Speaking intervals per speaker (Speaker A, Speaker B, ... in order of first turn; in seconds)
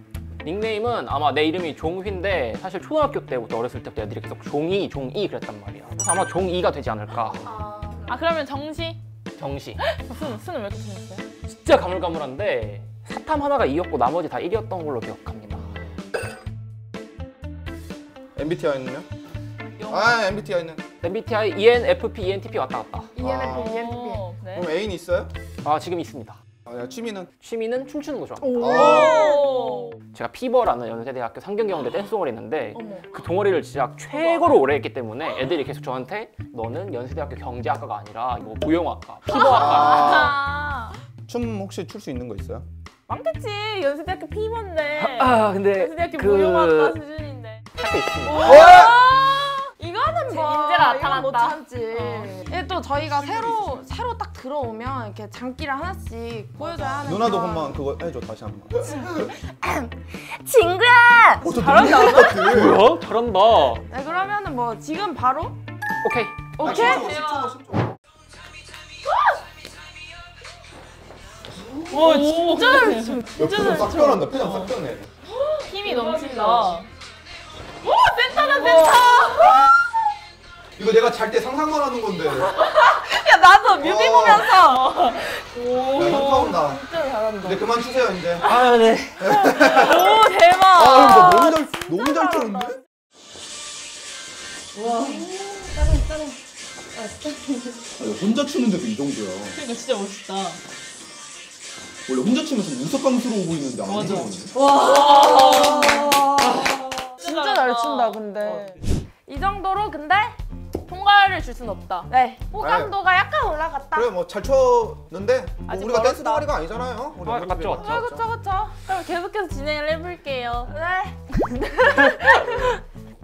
Speaker A: 0.4-7.5, 9.4-9.8, 11.5-15.8, 21.0-23.1, 25.6-26.4, 27.4-28.6, 30.1-40.2, 45.0-47.0, 47.8-48.5, 62.4-63.8, 66.0-66.6, 88.4-89.5, 117.2-117.9
Speaker B: 7.4-8.2, 23.1-24.3, 28.4-29.7, 32.8-33.2, 48.3-49.2, 49.8-57.8, 58.9-62.4, 63.9-65.6, 66.6-67.2, 71.9-73.3, 75.8-76.8, 78.3-79.5, 85.9-87.6, 91.7-92.8, 94.7-96.4, 97.0-97.9, 104.5-110.4, 112.1-114.1, 117.8-118.8, 120.7-121.2, 121.9-122.4
Speaker C: 8.1-9.0, 9.8-11.2, 19.8-20.2, 23.5-24.7, 28.6-30.0, 34.1-34.6, 39.3-41.0, 43.1-47.7, 48.3-49.7, 50.3-52.4, 61.5-62.6, 66.6-67.5, 71.9-74.7, 75.5-76.9, 77.8-79.7, 82.4-86.5, 89.5-91.6, 94.8-95.2, 99.5-100.6, 103.8-106.3, 107.2-108.7, 110.8-112.1, 115.7-116.5, 118.8-120.7, 121.7-122.7
Speaker D: 18.4-19.1, 19.9-20.8, 23.2-23.8, 24.5-25.3, 26.7-27.3, 28.6-29.3, 39.4-40.4, 41.3-42.7, 48.4-48.9, 53.0-53.8, 57.0-59.0, 61.4-62.9, 66.6-67.9, 73.3-75.1, 80.8-82.6, 83.8-84.6, 86.0-86.8, 87.4-88.5, 89.2-90.2, 90.7-92.8, 98.0-99.6, 102.1-104.5, 112.6-112.9, 113.9-118.3, 122.3-122.8